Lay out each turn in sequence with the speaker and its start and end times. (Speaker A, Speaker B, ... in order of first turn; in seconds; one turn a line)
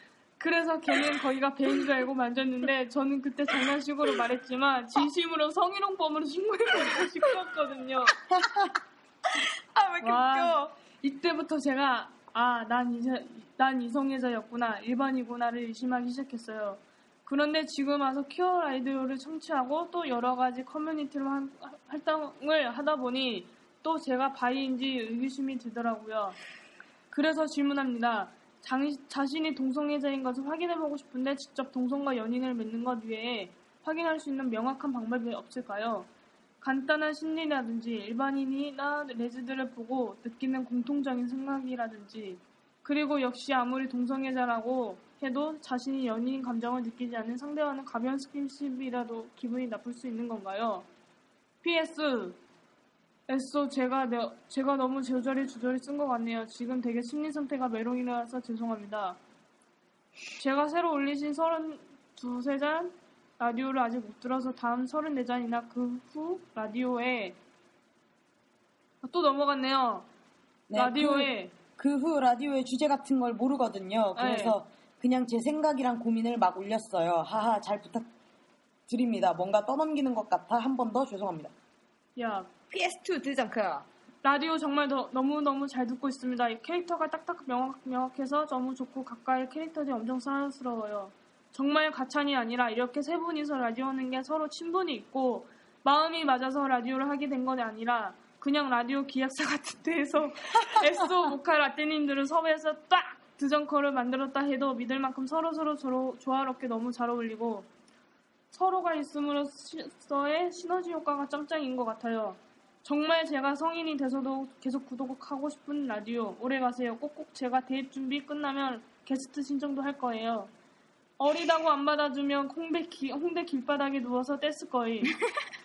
Speaker A: 0.4-8.2
Speaker B: 8.3-8.7
Speaker C: 9.7-10.7
Speaker A: 10.0-26.4
Speaker A: 27.1-36.1
Speaker A: 36.6-50.9
Speaker A: 51.6-52.4
Speaker A: 53.3-59.2
Speaker A: 60.4-67.4
Speaker A: 69.0-70.1
Speaker B: 70.7-78.1
Speaker A: 70.7-71.5
Speaker A: 74.2-74.6
Speaker B: 78.9-81.5
Speaker A: 82.2-82.5
Speaker C: 82.7-83.8
Speaker A: 84.2-107.7
Speaker A: 108.5-120.5
Speaker A: 121.2-125.1